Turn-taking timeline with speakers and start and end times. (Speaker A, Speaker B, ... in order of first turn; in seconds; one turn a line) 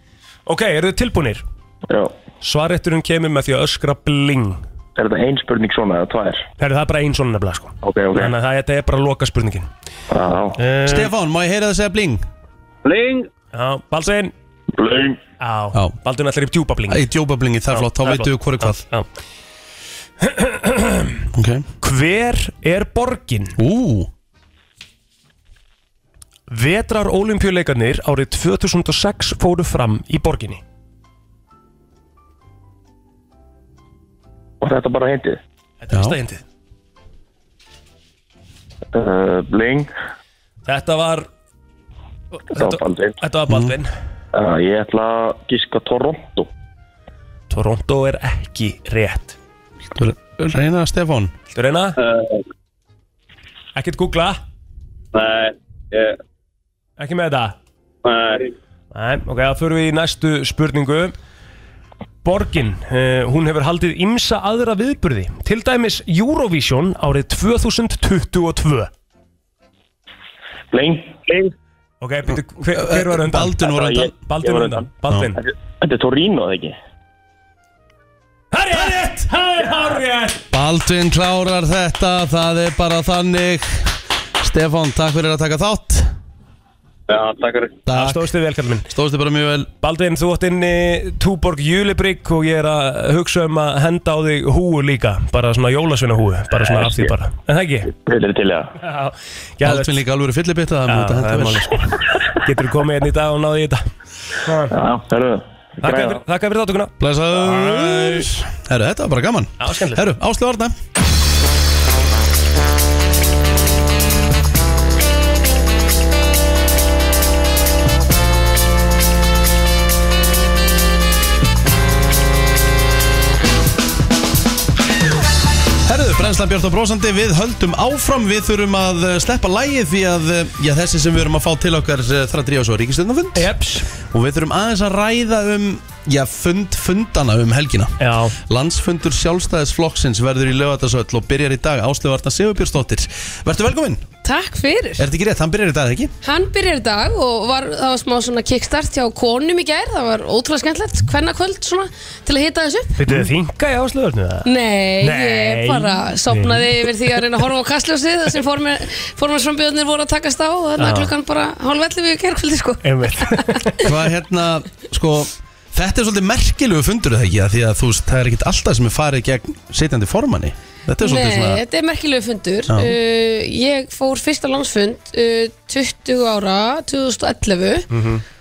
Speaker A: 0.5-1.4
Speaker A: 2.4-4.6
Speaker B: 5.0-6.5
Speaker A: 6.6-9.7
Speaker B: 7.8-8.3
Speaker B: 10.1-10.6
Speaker A: 10.6-11.1
Speaker C: 10.8-12.2
Speaker D: 12.8-13.3
Speaker A: 13.5-14.3
Speaker B: 14.7-15.2
Speaker A: 15.4-17.0
Speaker C: 16.9-18.8
Speaker A: 17.7-19.1
Speaker A: 20.2-21.2
Speaker C: 21.3-21.6
Speaker A: 21.8-23.6
Speaker C: 23.6-24.1
Speaker A: 26.5-30.6
Speaker B: 34.6-35.4
Speaker A: 35.8-36.4
Speaker C: 35.9-36.2
Speaker B: 38.9-39.9
Speaker A: 40.6-41.3
Speaker A: 42.5-43.9
Speaker B: 42.5-43.2
Speaker C: 43.5-43.7
Speaker B: 44.3-46.5
Speaker A: 47.5-49.3
Speaker C: 50.0-51.3
Speaker A: 51.5-52.0
Speaker D: 52.0-52.4
Speaker A: 53.8-54.4
Speaker D: 55.1-56.2
Speaker A: 57.0-57.5
Speaker D: 58.0-58.5
Speaker A: 58.9-61.1
Speaker A: 62.2-68.9
Speaker B: 70.7-71.4
Speaker A: 72.0-75.4
Speaker C: 72.7-74.1
Speaker B: 73.6-76.8
Speaker A: 78.5-80.4
Speaker C: 80.5-86.1
Speaker D: 87.1-87.8
Speaker C: 87.8-88.3
Speaker A: 87.9-88.9
Speaker C: 88.9-89.7
Speaker A: 89.8-97.9
Speaker B: 96.6-97.1
Speaker B: 97.9-98.7
Speaker A: 98.8-100.0
Speaker C: 99.6-101.8
Speaker A: 100.9-103.8
Speaker A: 104.4-104.7
Speaker B: 104.7-106.2
Speaker A: 105.8-108.3
Speaker C: 107.0-110.7
Speaker A: 109.6-110.0
Speaker C: 125.8-133.5
Speaker A: 133.3-133.9
Speaker C: 134.1-144.1
Speaker A: 138.0-138.3
Speaker E: 144.2-145.0
Speaker C: 145.0-146.1
Speaker E: 146.2-153.0
Speaker A: 153.0-154.5
Speaker E: 154.4-163.9
Speaker A: 155.0-157.2
Speaker A: 160.8-161.1
Speaker A: 162.8-163.8
Speaker C: 163.8-171.6
Speaker E: 171.0-177.8
Speaker C: 172.7-172.9
Speaker A: 177.9-178.2